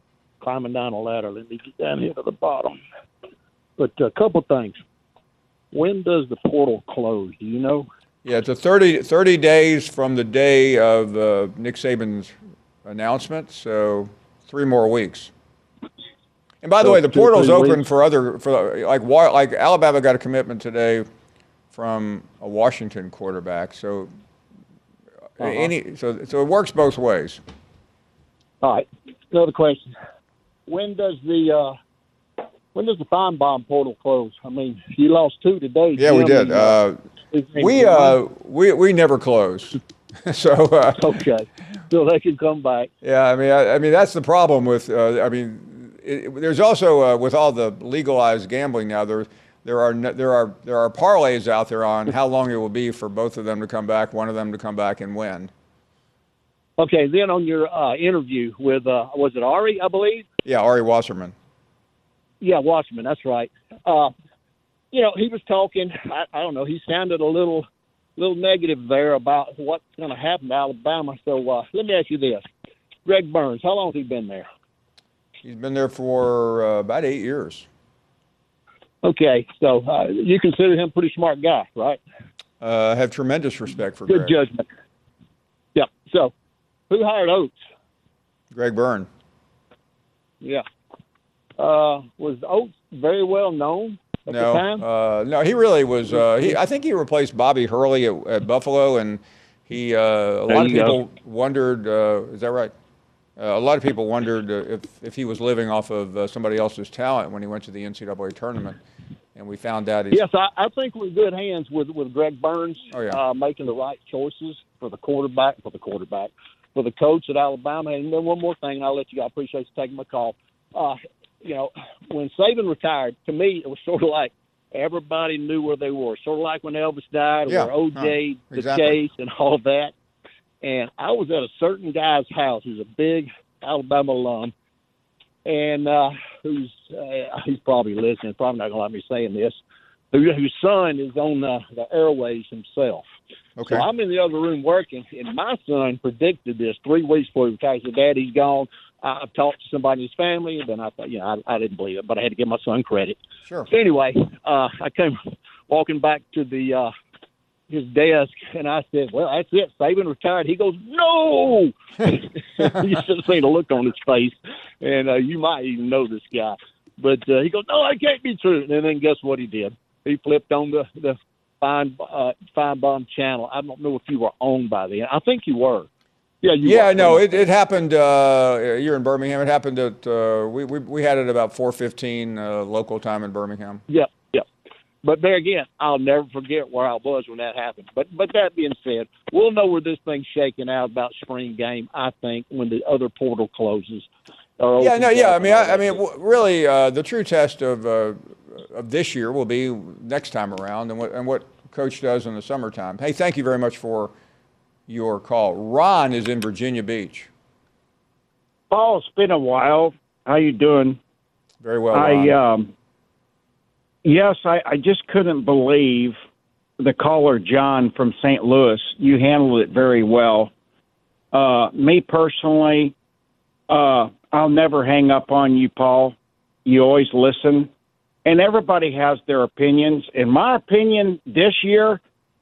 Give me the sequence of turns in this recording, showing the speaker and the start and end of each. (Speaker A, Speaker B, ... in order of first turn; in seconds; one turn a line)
Speaker A: 0.4-2.8
Speaker A: 3.8-4.8
Speaker A: 5.7-7.9
Speaker B: 8.2-12.3
Speaker B: 12.8-15.3
Speaker B: 16.6-21.1
Speaker A: 16.8-17.9
Speaker B: 21.7-24.1
Speaker B: 25.4-27.4
Speaker A: 25.4-25.7
Speaker A: 28.6-29.9
Speaker A: 30.7-31.8
Speaker A: 32.7-38.2
Speaker B: 36.0-37.0
Speaker B: 37.6-41.1
Speaker A: 41.0-42.9
Speaker B: 43.0-55.5
Speaker A: 56.8-60.2
Speaker B: 60.4-61.3
Speaker A: 62.4-64.1
Speaker A: 64.9-67.7
Speaker A: 68.2-72.4
Speaker A: 73.0-74.5
Speaker B: 75.4-77.7
Speaker A: 79.0-82.0
Speaker B: 82.6-84.3
Speaker A: 84.0-84.6
Speaker A: 85.7-86.3
Speaker A: 86.9-87.5
Speaker B: 88.5-89.1
Speaker A: 91.6-94.8
Speaker B: 94.3-102.7
Speaker A: 96.1-96.6
Speaker A: 100.5-101.0
Speaker B: 103.4-108.8
Speaker B: 109.3-110.2
Speaker A: 110.1-129.9
Speaker B: 112.9-113.2
Speaker B: 127.5-129.0
Speaker A: 130.6-134.5
Speaker A: 135.4-139.6
Speaker A: 140.1-143.0
Speaker B: 143.6-143.8
Speaker A: 143.6-156.9
Speaker A: 157.7-175.9
Speaker A: 176.4-177.5
Speaker B: 176.6-183.8
Speaker A: 183.9-184.4
Speaker A: 185.0-194.1
Speaker A: 194.6-196.0
Speaker B: 194.8-204.1
Speaker B: 204.9-207.3
Speaker C: 208.7-211.0
Speaker B: 211.6-212.3
Speaker C: 211.9-212.7
Speaker C: 214.0-216.2
Speaker C: 216.8-220.5
Speaker C: 221.3-222.9
Speaker C: 223.7-227.7
Speaker C: 228.2-232.0